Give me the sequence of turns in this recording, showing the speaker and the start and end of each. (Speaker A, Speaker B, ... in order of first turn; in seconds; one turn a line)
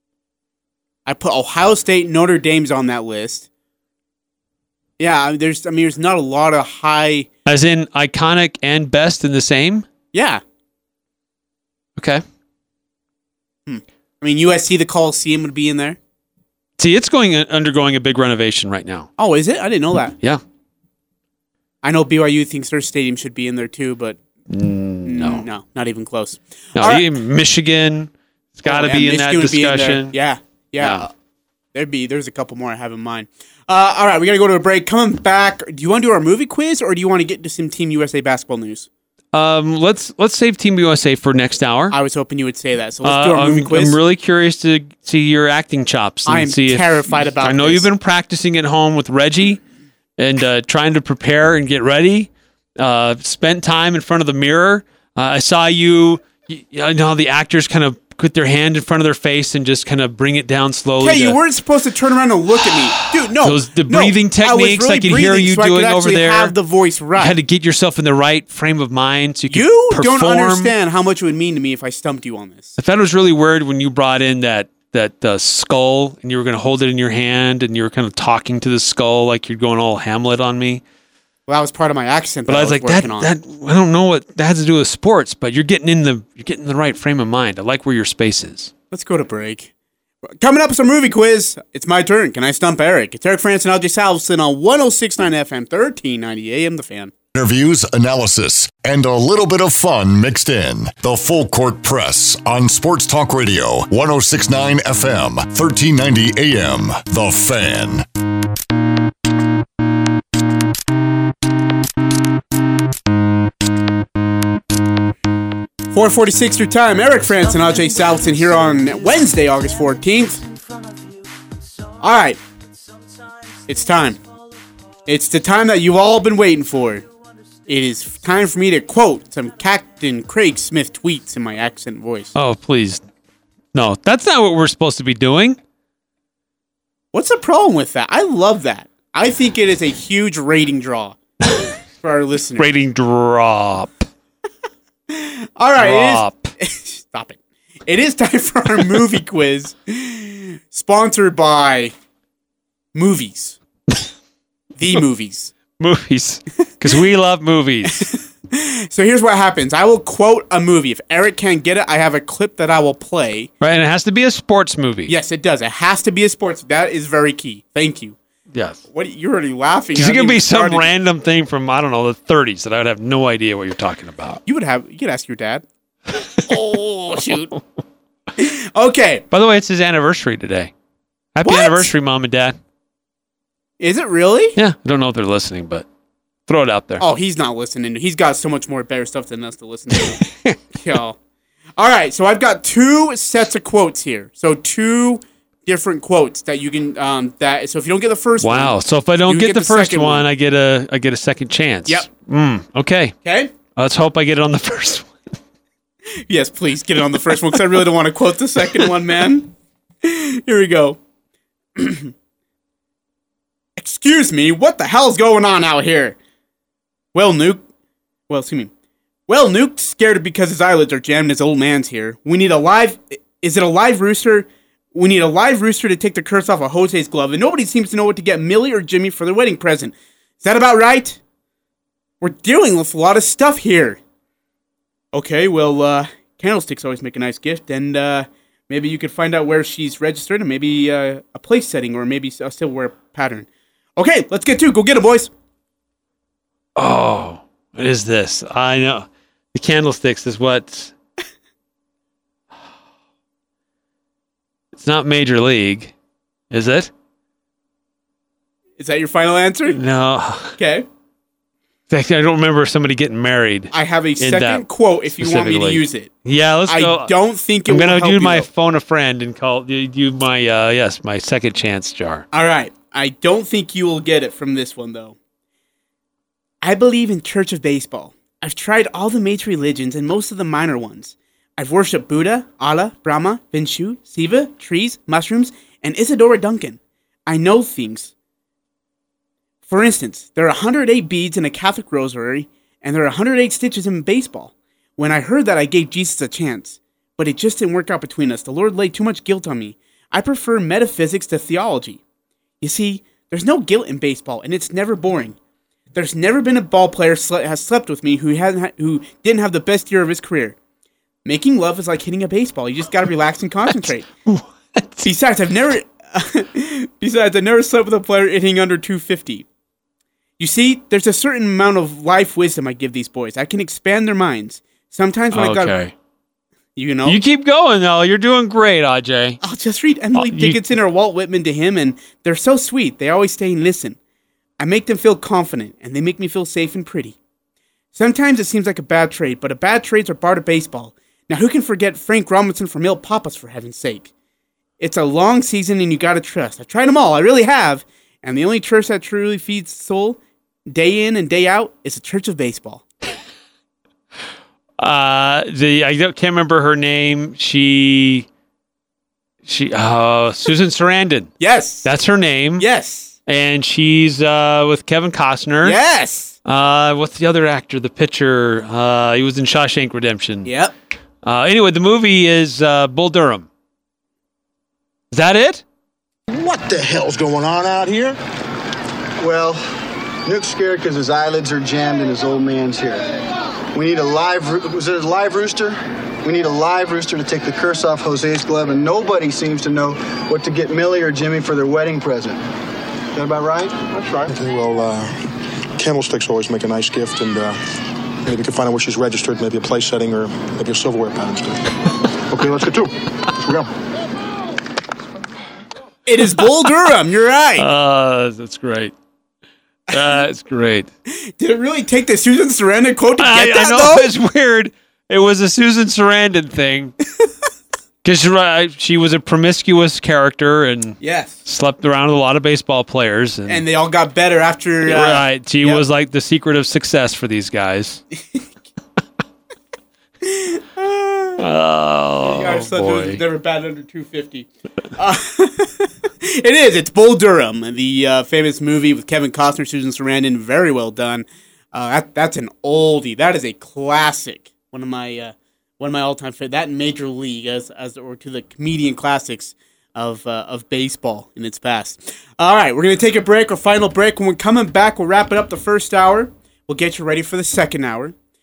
Speaker A: 1.1-3.5
Speaker A: 5.0-7.3
Speaker B: 7.5-9.9
Speaker A: 10.1-10.4
Speaker B: 12.0-12.2
Speaker A: 13.7-16.0
Speaker B: 16.8-19.1
Speaker A: 19.2-20.1
Speaker A: 21.8-24.2
Speaker B: 24.5-25.4
Speaker A: 25.1-27.1
Speaker B: 26.8-30.1
Speaker A: 28.7-31.1
Speaker B: 30.8-31.1
Speaker A: 31.7-38.9
Speaker B: 39.3-42.0
Speaker A: 41.9-44.0
Speaker B: 43.0-49.6
Speaker A: 46.3-47.9
Speaker B: 50.2-61.4
Speaker A: 61.0-67.4
Speaker B: 63.4-66.5
Speaker B: 67.2-70.7
Speaker A: 69.5-72.8
Speaker B: 72.8-80.8
Speaker A: 81.5-83.3
Speaker B: 82.5-88.7
Speaker A: 88.9-89.7
Speaker A: 90.3-97.1
Speaker C: 97.3-108.0
Speaker A: 115.9-120.5
Speaker A: 122.0-122.4
Speaker A: 123.7-124.2
Speaker A: 125.1-127.0
Speaker A: 127.7-132.3
Speaker B: 132.3-133.0
Speaker B: 133.7-135.6
Speaker A: 137.1-141.2
Speaker A: 142.0-142.7
Speaker B: 142.6-144.1
Speaker A: 145.1-151.9
Speaker B: 145.8-146.5
Speaker A: 152.9-153.6
Speaker A: 154.8-155.5
Speaker B: 155.8-158.1
Speaker A: 158.1-163.5
Speaker B: 163.6-165.1
Speaker A: 165.1-168.2
Speaker B: 168.5-168.8
Speaker A: 168.9-170.9
Speaker B: 169.9-174.4
Speaker A: 174.5-175.6
Speaker A: 176.4-177.6
Speaker A: 178.4-179.2
Speaker B: 179.3-180.7
Speaker B: 181.3-182.6
Speaker A: 181.4-181.9
Speaker A: 183.8-184.6
Speaker B: 184.6-185.8
Speaker B: 186.5-187.0
Speaker A: 187.0-191.2
Speaker A: 191.8-200.3
Speaker B: 198.4-203.2
Speaker A: 203.2-203.5
Speaker B: 203.7-205.1
Speaker A: 206.3-211.0
Speaker A: 211.8-212.1
Speaker A: 213.8-216.2
Speaker A: 217.1-217.6
Speaker A: 218.3-218.7
Speaker A: 219.3-231.2
Speaker A: 232.2-234.0
Speaker A: 235.1-245.3
Speaker B: 246.8-250.9
Speaker B: 254.8-255.9
Speaker B: 256.5-256.9
Speaker A: 258.8-259.8
Speaker B: 259.8-260.6
Speaker A: 260.6-260.9
Speaker B: 261.9-267.1
Speaker A: 263.7-266.1
Speaker A: 266.7-268.5
Speaker B: 267.7-272.3
Speaker A: 272.3-275.2
Speaker A: 276.6-288.1
Speaker A: 289.7-302.0
Speaker A: 302.6-305.4
Speaker A: 305.9-310.6
Speaker A: 311.2-314.1
Speaker B: 314.3-315.1
Speaker A: 315.0-319.4
Speaker A: 320.4-325.7
Speaker B: 325.3-325.9
Speaker A: 326.8-327.2
Speaker B: 327.1-329.4
Speaker A: 329.4-334.0
Speaker B: 330.1-330.6
Speaker A: 334.6-337.2
Speaker A: 337.9-344.1
Speaker A: 344.8-352.8
Speaker B: 354.8-358.3
Speaker B: 359.5-361.3
Speaker A: 361.4-361.9
Speaker B: 361.8-362.6
Speaker A: 362.6-363.2
Speaker B: 363.3-365.8
Speaker A: 365.6-366.4
Speaker B: 366.4-370.5
Speaker A: 370.5-370.7
Speaker B: 371.2-373.5
Speaker B: 375.1-375.6
Speaker D: 376.3-378.2
Speaker E: 379.2-379.6
Speaker E: 380.2-383.0
Speaker E: 383.7-392.4
Speaker E: 393.1-394.2
Speaker D: 394.2-397.6
Speaker D: 398.2-401.8
Speaker D: 402.3-403.7
Speaker A: 406.1-407.7
Speaker B: 407.6-408.9
Speaker B: 409.9-410.9
Speaker A: 411.1-414.1
Speaker B: 413.2-416.9
Speaker B: 418.0-423.6
Speaker A: 421.0-421.4
Speaker A: 423.5-425.8
Speaker B: 424.9-428.0
Speaker A: 430.2-431.4
Speaker B: 431.4-433.2
Speaker A: 432.2-458.1